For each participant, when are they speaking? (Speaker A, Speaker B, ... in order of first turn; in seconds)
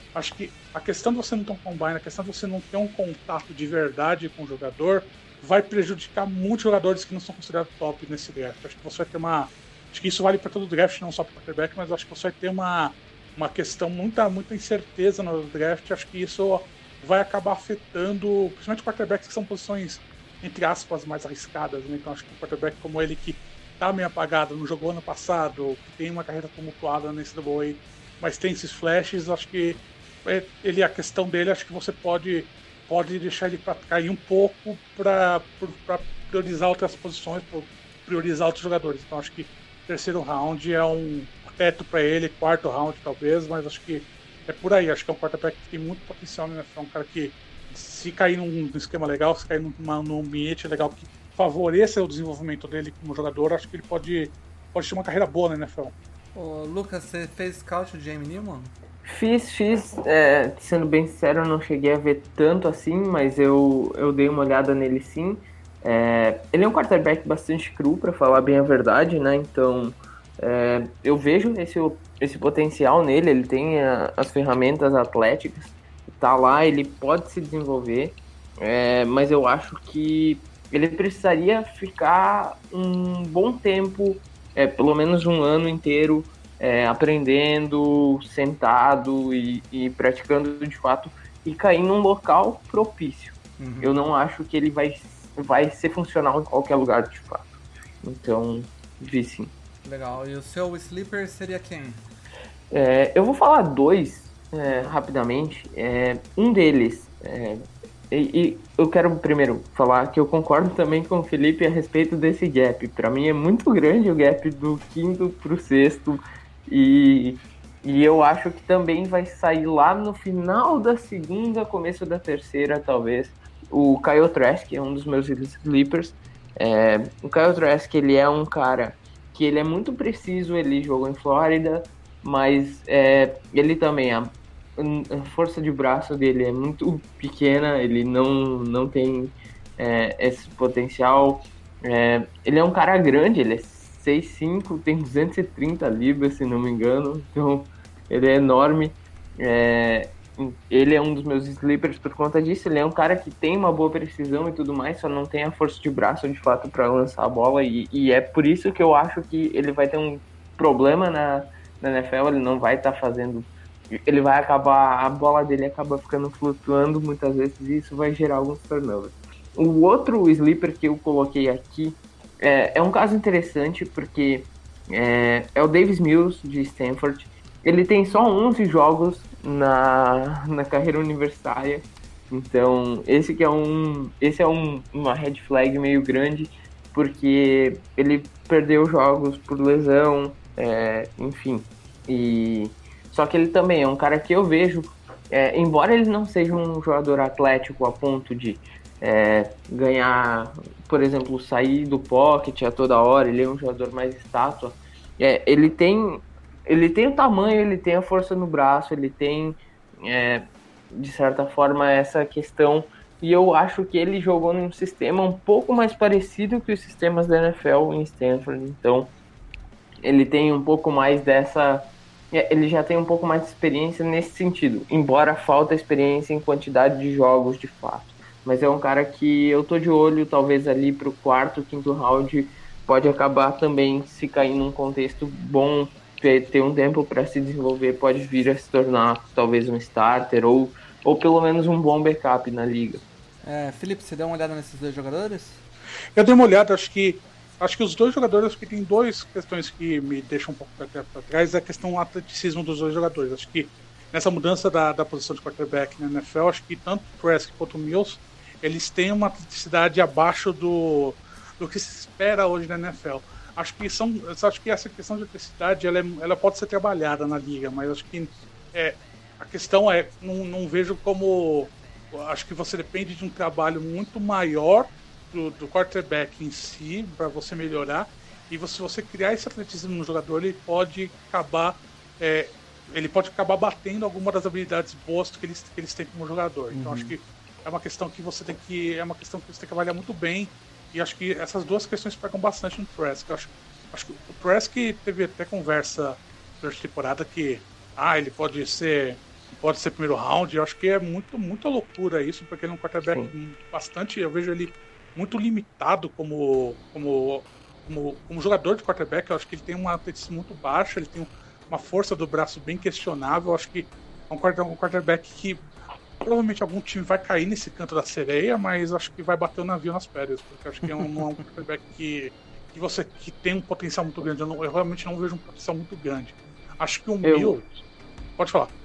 Speaker A: 0.1-56.0, 246.2-315.6, 316.2-327.7, 328.4-328.7
Speaker B: 56.4-58.7, 93.6-94.0, 99.8-102.0, 243.4-245.6, 286.7-287.2
Speaker C: 59.0-97.5, 98.0-99.5, 102.7-219.1, 220.0-243.0, 327.2-327.6